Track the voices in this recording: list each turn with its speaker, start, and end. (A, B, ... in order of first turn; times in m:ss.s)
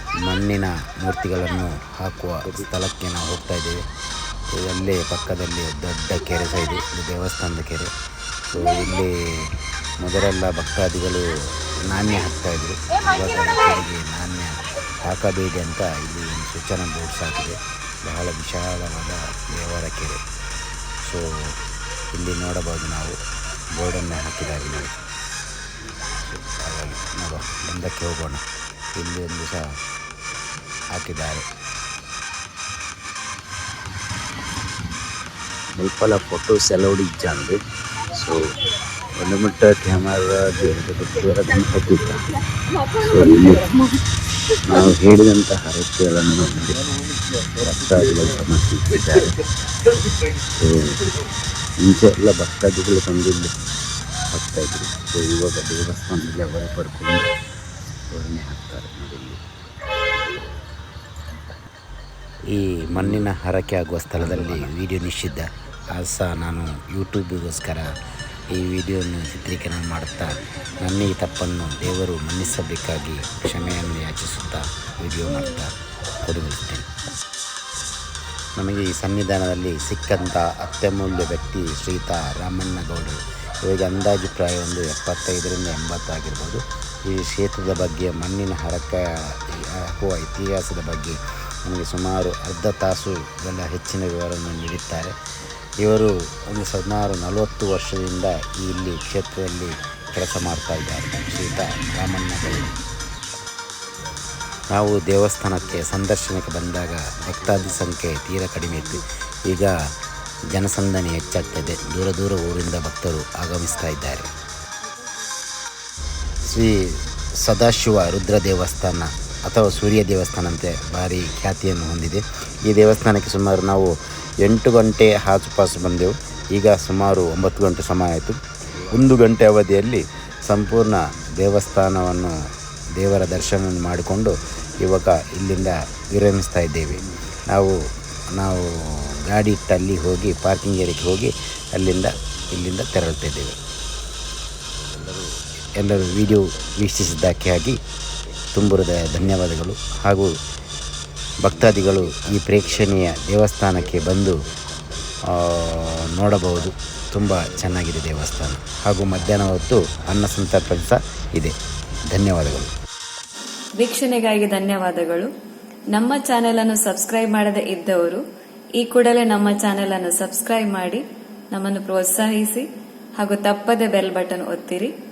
0:00.2-0:03.8 A
0:04.5-0:07.9 A
0:08.5-0:09.1 A
0:10.0-0:11.3 A
0:11.8-0:20.2 A
0:21.0-0:21.6 A
0:22.2-0:23.2 A
0:23.8-0:24.9 A
0:26.2-0:28.4 A
0:29.0-0:29.7 A
0:30.9-0:31.5 A
0:35.8-0:37.6 B
0:38.1-0:38.4 B
0:39.1-0:42.2 B
0:42.9-0:43.7 B
0:44.7-0:46.8 B
0:47.6-0:49.4 B
0:50.6-0:51.0 B
0:51.8-0:53.5 B
0:54.3-0:57.3 B
0:58.1-0:59.4 B
1:02.5-1:07.9 A
1:08.5-1:16.9 A
1:18.6-1:35.1 A
1:35.8-1:42.8 A
1:44.8-1:49.7 A
1:50.5-1:54.3 A
1:57.4-2:03.9 A
2:04.4-2:08.4 A
2:08.9-2:12.3 A
2:13.0-2:17.0 A
2:18.3-2:23.6 A
2:24.8-2:25.3 B
2:25.8-2:27.8 A
2:26.1-2:26.7 B
2:28.5-2:30.3 A
2:31.4-2:34.4 A
2:31.8-2:33.1 B
2:35.4-2:41.5 A
2:42.1-2:42.7 A
2:43.8-2:45.3 C
2:45.9-2:48.2 C
2:48.8-2:52.6 C
2:53.2-2:54.9 C